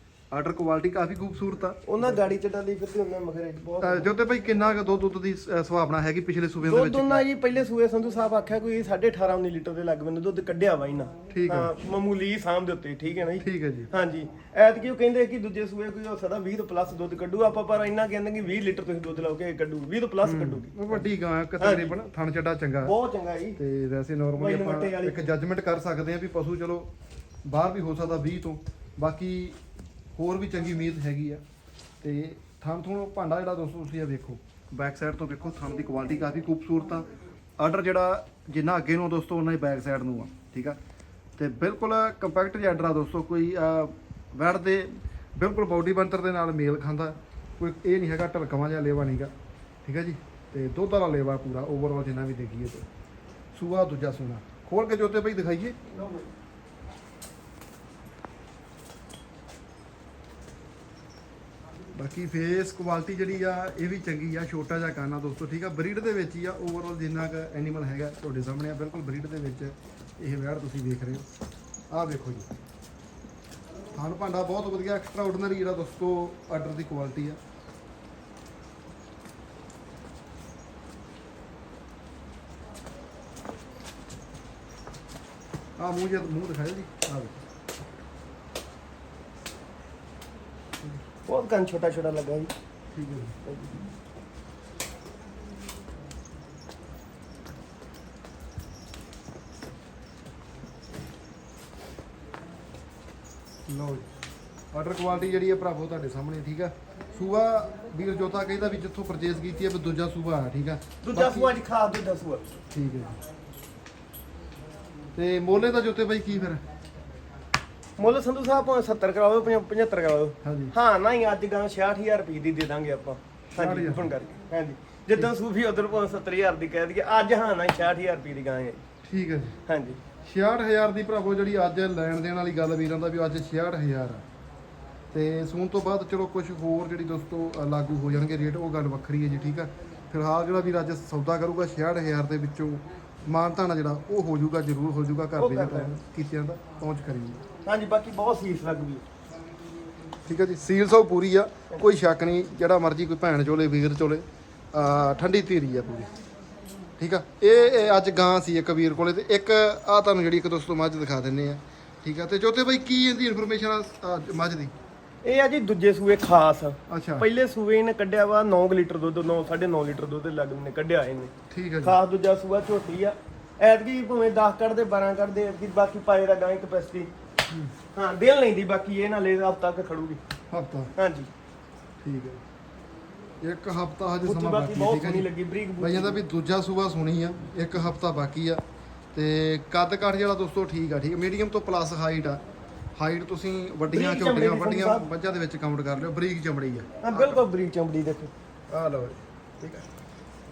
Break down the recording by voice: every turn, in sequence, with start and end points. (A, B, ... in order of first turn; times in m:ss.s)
0:00.3-0:01.8 A
0:01.8-0:04.1 B
0:03.8-0:07.2 A
0:06.6-0:21.0 B
0:11.3-0:11.7 A
0:13.4-0:13.9 A
0:20.2-0:22.9 A
0:21.6-0:22.0 B
0:22.8-0:23.6 B
0:23.6-0:26.9 A
0:24.4-0:25.2 B
0:27.4-0:29.6 A
0:30.2-0:31.4 A
0:32.0-0:37.0 A
0:37.6-0:40.8 A
0:41.4-0:49.3 A
0:49.8-0:52.8 A
0:53.5-0:55.8 A
0:55.9-0:56.2 B
1:01.9-1:11.2 A
1:11.9-1:12.4 A
1:13.9-1:17.4 A
1:25.8-1:27.4 A
1:31.2-1:32.5 B
1:32.9-1:33.4 A
1:33.4-1:33.8 B
1:43.7-1:44.1 A
1:44.7-1:51.5 A
1:51.0-1:52.4 B
1:52.7-1:53.2 A
1:55.2-1:56.6 A
1:58.0-2:08.8 B
2:00.4-2:00.7 A
2:03.5-2:04.1 A
2:09.0-2:09.6 A
2:09.6-2:10.0 B
2:10.2-2:14.2 A
2:15.1-2:27.4 A
2:25.3-2:25.9 B
2:27.6-2:29.0 B
2:30.2-2:36.1 A
2:37.0-2:44.7 A
2:45.2-2:57.1 B
2:46.9-2:47.2 A
2:51.5-2:52.0 A
2:57.9-3:00.2 B
3:00.5-3:00.9 A
3:01.0-3:01.3 B
3:02.0-3:02.4 A
3:03.4-3:05.3 A
3:04.2-3:06.2 B
3:05.8-3:08.6 A
3:09.1-3:12.4 A
3:13.0-3:17.4 A
3:13.9-3:15.0 B
3:17.0-3:18.3 B
3:18.7-3:19.8 A